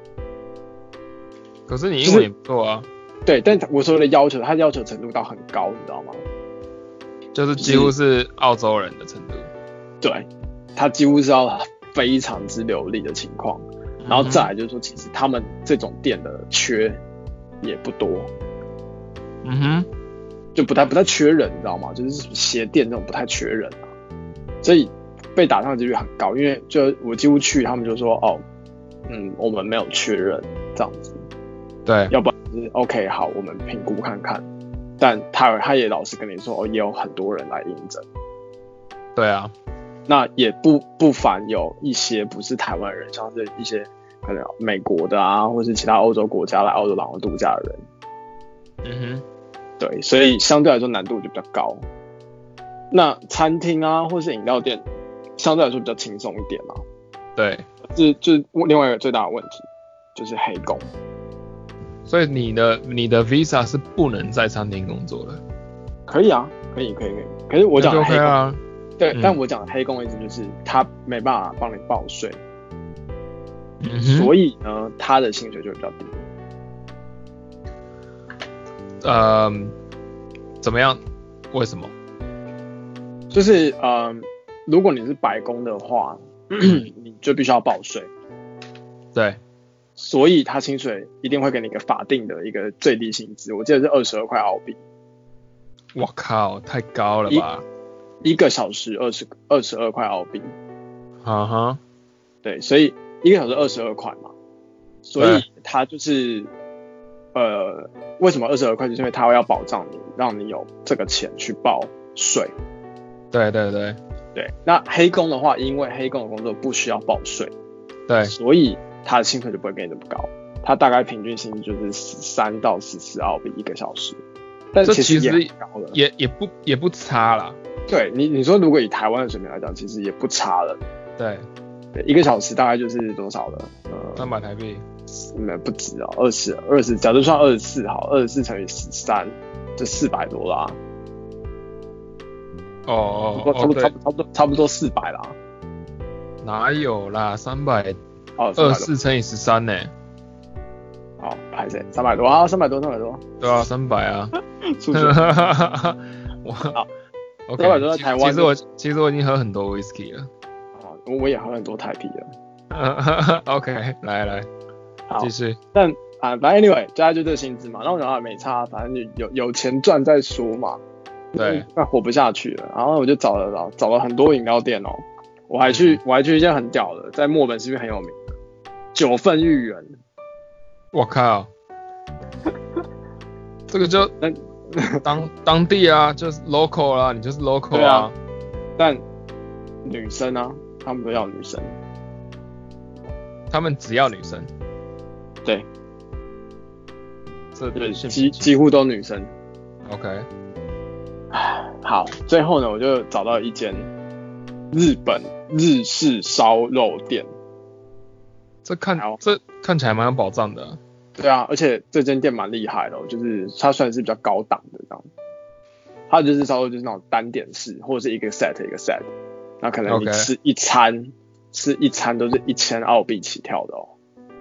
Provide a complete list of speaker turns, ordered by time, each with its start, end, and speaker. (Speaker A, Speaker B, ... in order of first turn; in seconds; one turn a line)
Speaker A: 1.7-2.9
Speaker B: 2.0-2.3
Speaker B: 3.3-6.2
Speaker A: 7.3-9.5
Speaker B: 7.6-7.9
Speaker B: 10.0-17.0
Speaker A: 14.0-14.5
Speaker B: 17.6-18.3
Speaker A: 19.4-19.9
Speaker B: 20.6-23.8
Speaker B: 24.6-28.4
Speaker B: 29.1-31.2
Speaker A: 31.9-32.1
Speaker B: 32.1-34.5
Speaker B: 35.0-38.1
Speaker A: 39.2-39.5
Speaker B: 40.1-47.8
Speaker A: 48.8-49.2
Speaker B: 49.8-51.9
Speaker B: 52.9-54.8
Speaker B: 55.4-56.8
Speaker A: 57.4-57.7
Speaker B: 57.8-60.9
Speaker A: 62.1-65.4
Speaker B: 66.1-68.3
Speaker A: 67.8-68.6
Speaker B: 69.0-72.4
Speaker A: 69.1-69.4
Speaker A: 73.8-74.3
Speaker B: 74.0-76.2
Speaker A: 79.0-79.7
Speaker A: 80.6-81.0
Speaker A: 81.5-81.9
Speaker B: 83.3-88.1
Speaker B: 90.0-94.8
Speaker A: 96.0-97.6
Speaker B: 98.2-100.5
Speaker A: 101.2-101.8
Speaker B: 102.4-104.3
Speaker B: 105.0-106.5
Speaker A: 105.2-105.5
Speaker B: 107.3-112.5
Speaker A: 113.3-114.0
Speaker B: 114.3-117.5
Speaker A: 118.1-118.3
Speaker B: 118.2-124.2
Speaker B: 124.7-126.0
Speaker A: 124.8-127.6
Speaker B: 127.9-130.8
Speaker A: 131.2-131.4
Speaker B: 131.9-134.2
Speaker A: 134.2-134.8
Speaker B: 135.3-140.8
Speaker A: 142.9-143.9
Speaker B: 143.3-145.4
Speaker A: 146.4-148.0
Speaker B: 148.4-148.9
Speaker A: 148.6-149.9
Speaker B: 151.2-153.3
Speaker A: 153.4-154.3
Speaker B: 154.6-155.3
Speaker A: 154.9-156.8
Speaker A: 157.5-160.3
Speaker B: 157.6-158.5
Speaker B: 160.8-162.3
Speaker A: 162.7-164.5
Speaker B: 165.1-170.8
Speaker A: 165.2-165.6
Speaker B: 171.3-178.2
Speaker A: 171.4-171.7
Speaker A: 175.7-176.0
Speaker B: 178.9-179.9
Speaker A: 180.9-181.5
Speaker A: 183.7-184.1
Speaker B: 184.2-185.0
Speaker A: 185.0-188.2
Speaker B: 187.7-188.1
Speaker B: 189.8-191.8
Speaker A: 193.5-194.5
Speaker A: 197.6-198.5
Speaker B: 197.8-199.3
Speaker A: 199.9-200.3
Speaker B: 201.3-203.9
Speaker B: 204.7-207.3
Speaker A: 208.7-210.8
Speaker B: 211.2-215.1
Speaker B: 216.1-219.1
Speaker B: 219.6-223.9
Speaker A: 219.9-220.3